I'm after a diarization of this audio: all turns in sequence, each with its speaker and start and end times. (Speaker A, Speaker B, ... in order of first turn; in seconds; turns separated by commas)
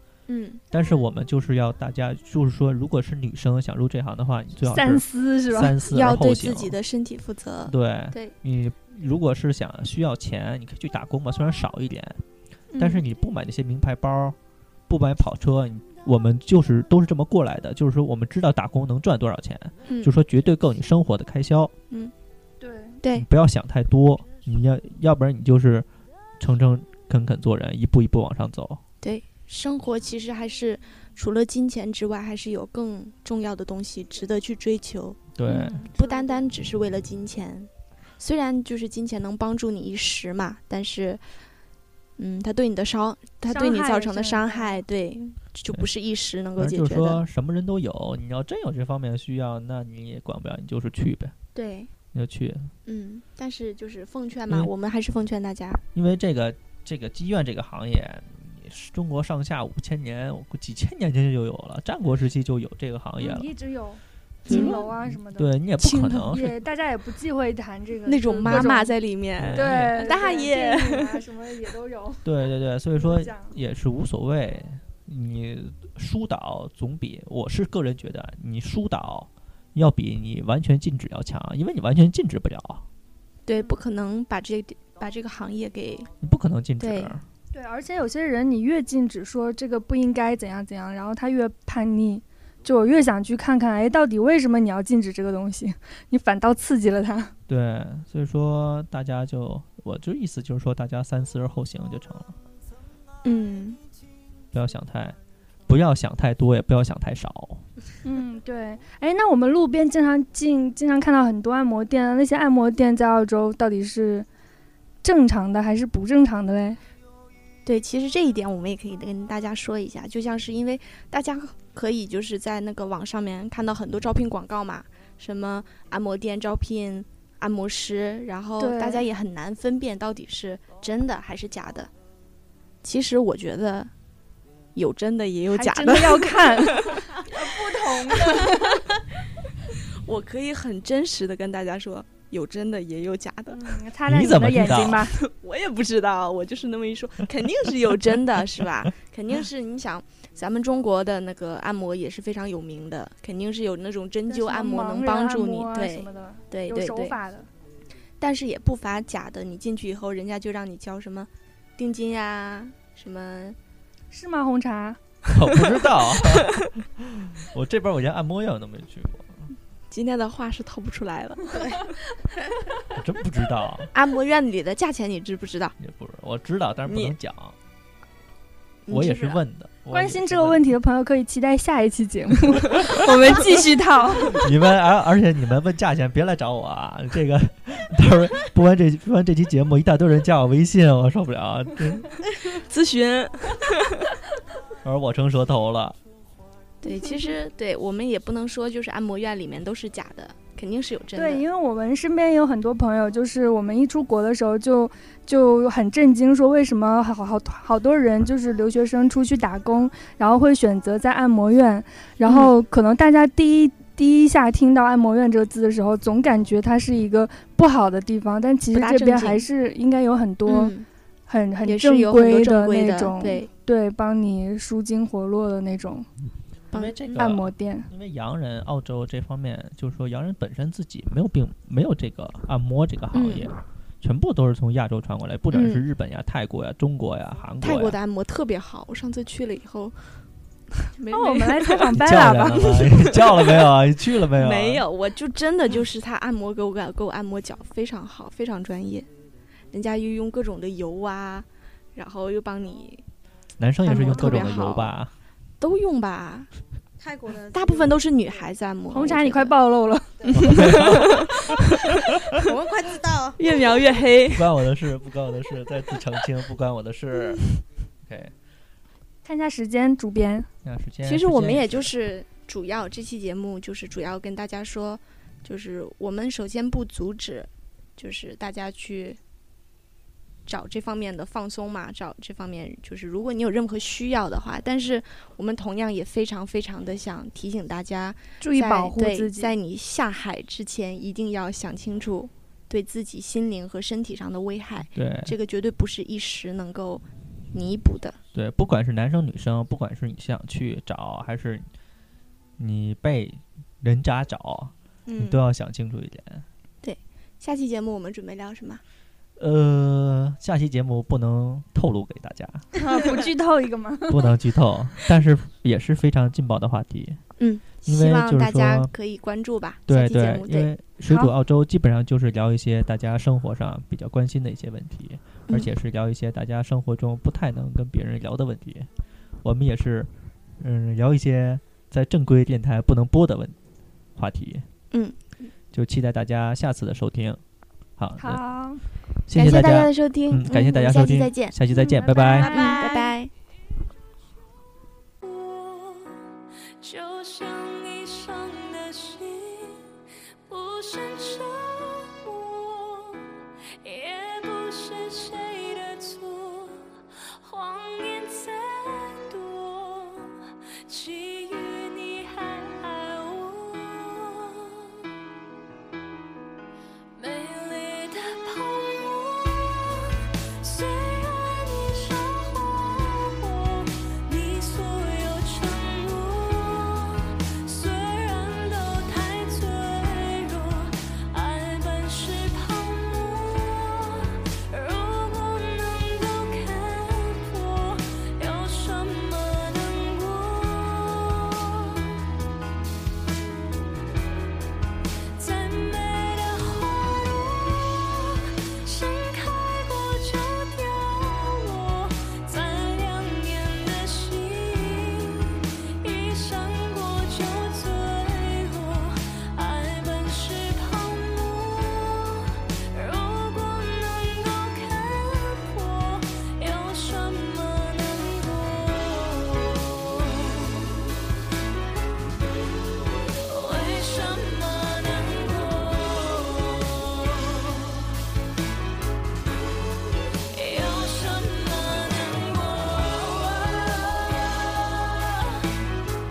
Speaker A: 0.3-0.6, Speaker B: 0.7-6.8, Speaker C: 4.7-5.8, Speaker A: 5.9-8.3, Speaker B: 7.7-12.2, Speaker A: 12.7-13.0, Speaker B: 12.8-14.3, Speaker B: 14.9-21.7, Speaker A: 19.9-20.1, Speaker C: 22.6-23.0, Speaker B: 23.1-25.9, Speaker B: 26.4-28.8, Speaker A: 29.0-35.3, Speaker B: 35.4-35.8, Speaker C: 35.5-36.2, Speaker A: 35.8-41.2, Speaker A: 42.2-47.2, Speaker C: 43.5-44.8, Speaker B: 46.6-51.3, Speaker A: 51.5-51.9, Speaker B: 52.1-52.7, Speaker A: 52.9-55.8, Speaker B: 55.9-63.5, Speaker C: 63.2-68.9, Speaker B: 64.4-66.6, Speaker A: 64.5-64.8, Speaker A: 65.8-66.1, Speaker A: 68.1-71.2, Speaker B: 68.5-68.7, Speaker B: 69.4-70.1, Speaker C: 69.5-72.3, Speaker B: 72.2-82.8, Speaker C: 73.0-73.5, Speaker A: 83.5-86.1, Speaker B: 86.2-87.2, Speaker A: 86.8-87.2, Speaker C: 87.5-97.3, Speaker B: 97.5-102.3, Speaker A: 103.2-103.8, Speaker B: 104.5-105.2, Speaker B: 105.7-107.6, Speaker C: 108.0-114.2, Speaker C: 115.0-116.8, Speaker A: 117.6-131.9, Speaker C: 128.6-129.0, Speaker A: 132.8-133.9, Speaker A: 134.7-137.4, Speaker C: 135.5-138.8, Speaker A: 137.9-138.6, Speaker A: 140.0-143.8, Speaker C: 143.5-145.2, Speaker B: 144.0-145.1, Speaker A: 145.1-157.2, Speaker C: 154.3-157.5, Speaker A: 158.2-163.6, Speaker C: 164.1-165.0, Speaker B: 165.3-169.5, Speaker A: 169.9-171.8, Speaker B: 172.9-173.9, Speaker A: 173.9-175.7, Speaker B: 175.8-177.6, Speaker A: 176.8-177.1, Speaker A: 178.9-179.4, Speaker B: 178.9-180.7, Speaker C: 179.9-184.4, Speaker B: 184.3-192.2, Speaker A: 192.4-194.0, Speaker B: 194.8-195.9, Speaker A: 196.8-201.4, Speaker C: 196.8-197.3, Speaker C: 201.2-220.7, Speaker A: 212.2-212.5, Speaker A: 218.7-219.4, Speaker A: 220.4-220.8, Speaker C: 221.3-226.1, Speaker A: 221.6-223.5, Speaker A: 226.7-227.2, Speaker B: 226.7-238.0, Speaker C: 227.1-227.9, Speaker A: 233.1-233.5, Speaker A: 235.5-235.8, Speaker A: 237.6-240.2, Speaker A: 240.9-243.6, Speaker C: 241.1-242.9, Speaker B: 241.9-244.8, Speaker A: 244.4-249.1, Speaker A: 249.7-253.0, Speaker B: 253.6-255.1, Speaker A: 253.8-254.9, Speaker A: 255.6-256.5, Speaker D: 257.0-258.5, Speaker A: 257.5-259.5, Speaker C: 258.9-260.3, Speaker D: 260.2-260.5, Speaker B: 260.3-261.6, Speaker A: 260.3-261.9, Speaker D: 262.2-263.8, Speaker A: 263.4-264.5, Speaker B: 264.3-268.3, Speaker C: 269.2-270.5, Speaker B: 270.6-271.9, Speaker A: 271.0-279.2, Speaker A: 280.4-298.2, Speaker C: 288.4-289.5, Speaker B: 294.9-295.3, Speaker B: 298.3-301.7, Speaker B: 302.6-306.4, Speaker A: 305.1-305.4, Speaker A: 306.8-308.8, Speaker B: 309.4-312.8, Speaker C: 312.7-314.4, Speaker B: 314.1-317.2, Speaker A: 317.4-320.7, Speaker B: 317.9-318.9, Speaker B: 319.9-328.9, Speaker C: 321.1-321.3, Speaker B: 329.4-333.6, Speaker B: 334.1-334.7, Speaker A: 334.9-335.5, Speaker B: 335.7-337.4, Speaker B: 338.0-338.4, Speaker C: 338.2-338.8, Speaker B: 339.3-342.7, Speaker A: 339.3-341.6, Speaker C: 341.7-343.1, Speaker A: 342.3-343.3, Speaker E: 345.2-346.2, Speaker E: 346.8-349.9, Speaker E: 350.4-353.3, Speaker E: 353.8-365.0, Speaker E: 367.1-392.2, Speaker E: 395.4-420.9, Speaker E: 423.4-428.1, Speaker E: 430.5-435.6